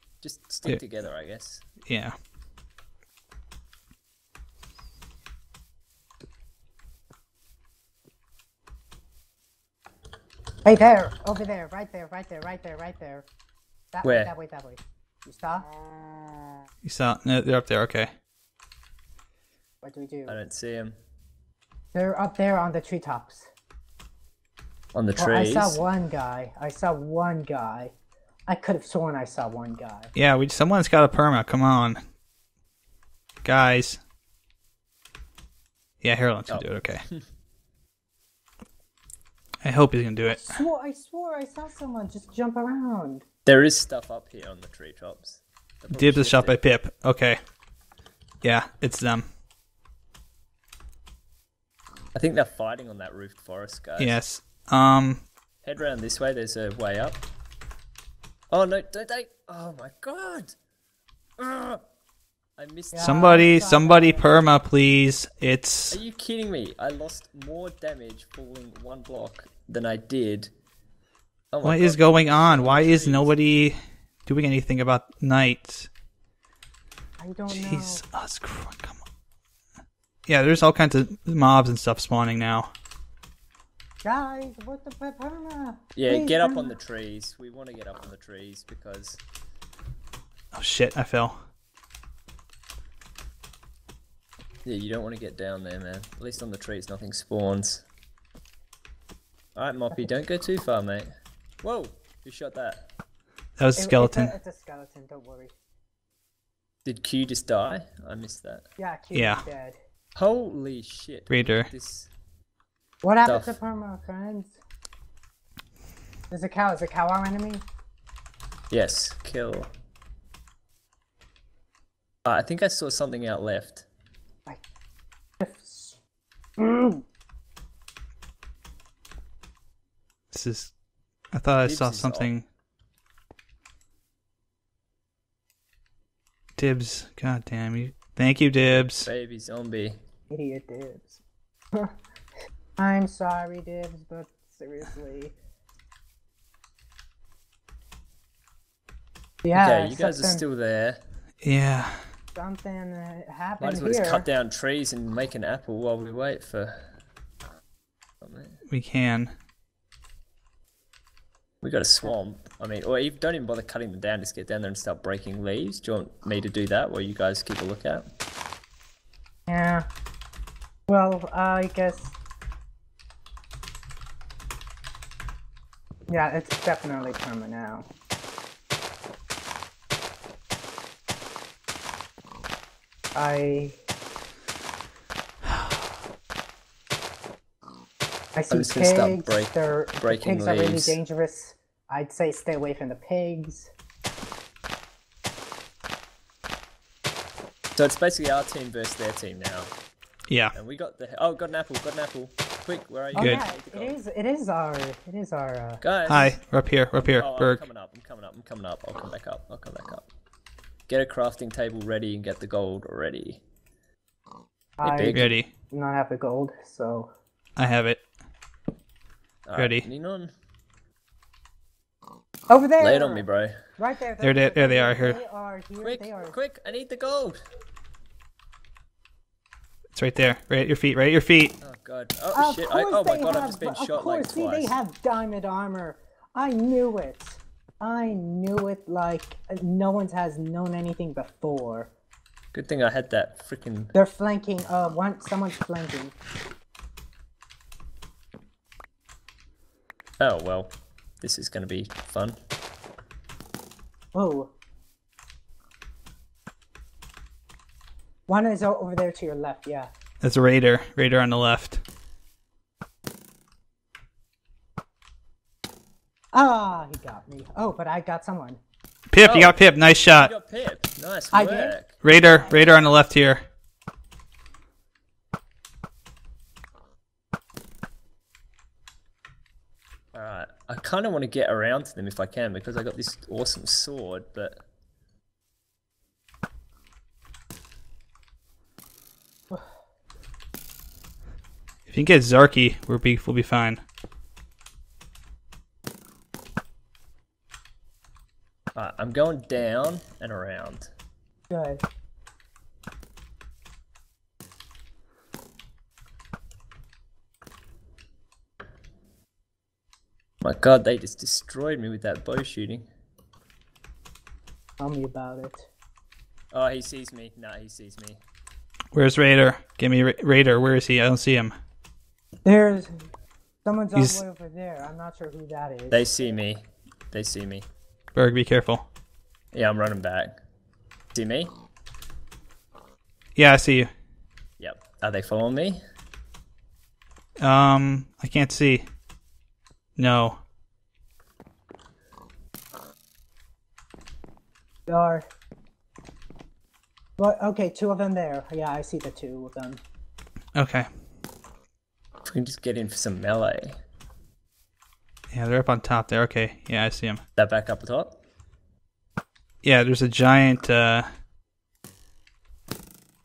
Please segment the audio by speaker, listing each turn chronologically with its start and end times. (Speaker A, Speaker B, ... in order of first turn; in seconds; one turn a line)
Speaker A: 0.2-1.6
Speaker B: 1.9-2.1
Speaker C: 10.7-13.3
Speaker C: 13.9-15.7
Speaker A: 14.0-14.3
Speaker B: 16.8-18.1
Speaker C: 19.8-20.4
Speaker A: 20.3-21.0
Speaker C: 21.9-23.5
Speaker A: 24.9-25.8
Speaker C: 25.2-27.9
Speaker C: 28.5-30.1
Speaker B: 30.1-32.0
Speaker B: 33.4-34.0
Speaker B: 36.0-37.0
Speaker A: 36.5-37.2
Speaker B: 39.6-40.6
Speaker C: 40.3-43.2
Speaker A: 43.5-46.6
Speaker B: 45.9-47.4
Speaker B: 48.4-49.3
Speaker A: 52.1-54.2
Speaker B: 54.0-55.2
Speaker A: 55.6-57.2
Speaker A: 58.5-60.5
Speaker A: 61.4-61.8
Speaker A: 62.6-63.5
Speaker C: 62.9-64.5
Speaker B: 63.0-66.0
Speaker A: 65.9-70.5
Speaker A: 71.5-73.4
Speaker B: 71.6-75.9
Speaker C: 77.2-78.0
Speaker B: 77.5-79.0
Speaker B: 80.3-82.7
Speaker C: 84.0-86.8
Speaker A: 86.0-89.2
Speaker B: 90.5-91.4
Speaker A: 94.7-97.8
Speaker A: 99.6-101.1
Speaker A: 101.6-102.9
Speaker B: 103.6-104.3
Speaker C: 103.8-105.5
Speaker A: 106.8-108.6
Speaker C: 108.8-109.8
Speaker B: 109.1-109.4
Speaker A: 110.2-112.1
Speaker B: 111.3-111.7
Speaker C: 113.0-114.6
Speaker A: 113.2-113.6
Speaker C: 116.3-117.7
Speaker A: 118.7-119.7
Speaker A: 122.2-123.9
Speaker C: 125.4-126.0
Speaker C: 126.6-127.0
Speaker B: 130.3-130.7
Speaker B: 131.3-132.5
Speaker A: 131.6-132.3
Speaker B: 136.6-139.1
Speaker A: 138.6-140.0
Speaker C: 140.3-141.2
Speaker C: 142.8-145.3
Speaker C: 149.4-150.4
Speaker A: 149.5-151.0
Speaker B: 151.4-152.0
Speaker C: 152.3-154.3
Speaker A: 153.6-156.8
Speaker A: 158.2-158.6
Speaker B: 158.7-159.3
Speaker A: 161.6-168.1
Speaker C: 169.5-169.9
Speaker C: 170.9-172.2
Speaker C: 176.1-177.9
Speaker C: 183.2-183.8
Speaker C: 188.3-193.7
Speaker A: 188.5-191.0
Speaker A: 197.8-199.7
Speaker B: 200.3-200.5
Speaker A: 200.5-204.0
Speaker C: 203.1-205.8
Speaker B: 203.2-203.4
Speaker A: 205.8-206.4
Speaker B: 206.1-207.7
Speaker A: 207.0-210.1
Speaker A: 210.9-213.4
Speaker C: 214.8-217.1
Speaker A: 214.8-215.4
Speaker B: 215.1-215.5
Speaker B: 217.6-218.0
Speaker A: 219.4-220.3
Speaker B: 219.6-219.9
Speaker C: 222.5-223.3
Speaker A: 222.8-223.5
Speaker C: 223.8-226.4
Speaker B: 224.2-225.2
Speaker A: 225.8-227.4
Speaker B: 229.9-231.5
Speaker A: 231.6-234.8
Speaker C: 232.3-241.9
Speaker A: 242.5-243.9
Speaker C: 243.9-246.2
Speaker A: 250.2-252.4
Speaker C: 254.1-254.5
Speaker C: 258.3-259.9
Speaker B: 260.2-261.8
Speaker C: 266.3-268.6
Speaker B: 269.1-270.3
Speaker A: 269.2-272.0
Speaker C: 271.3-271.8
Speaker B: 272.0-273.4
Speaker A: 280.1-284.6
Speaker B: 291.9-293.8
Speaker A: 298.8-300.9
Speaker C: 301.5-301.8
Speaker A: 310.4-312.9
Speaker C: 314.8-315.7
Speaker A: 316.5-318.2
Speaker B: 318.9-321.5
Speaker C: 322.4-323.1
Speaker C: 323.6-326.1
Speaker A: 325.9-327.7
Speaker B: 328.1-328.9
Speaker A: 329.5-330.3
Speaker A: 331.1-331.5
Speaker B: 333.4-333.9
Speaker A: 334.6-335.8
Speaker B: 337.4-338.9
Speaker B: 340.0-340.4
Speaker C: 344.9-345.3
Speaker C: 347.2-349.8
Speaker B: 350.6-350.9
Speaker A: 352.2-353.8
Speaker B: 355.3-357.2
Speaker A: 357.4-358.2
Speaker B: 359.6-361.1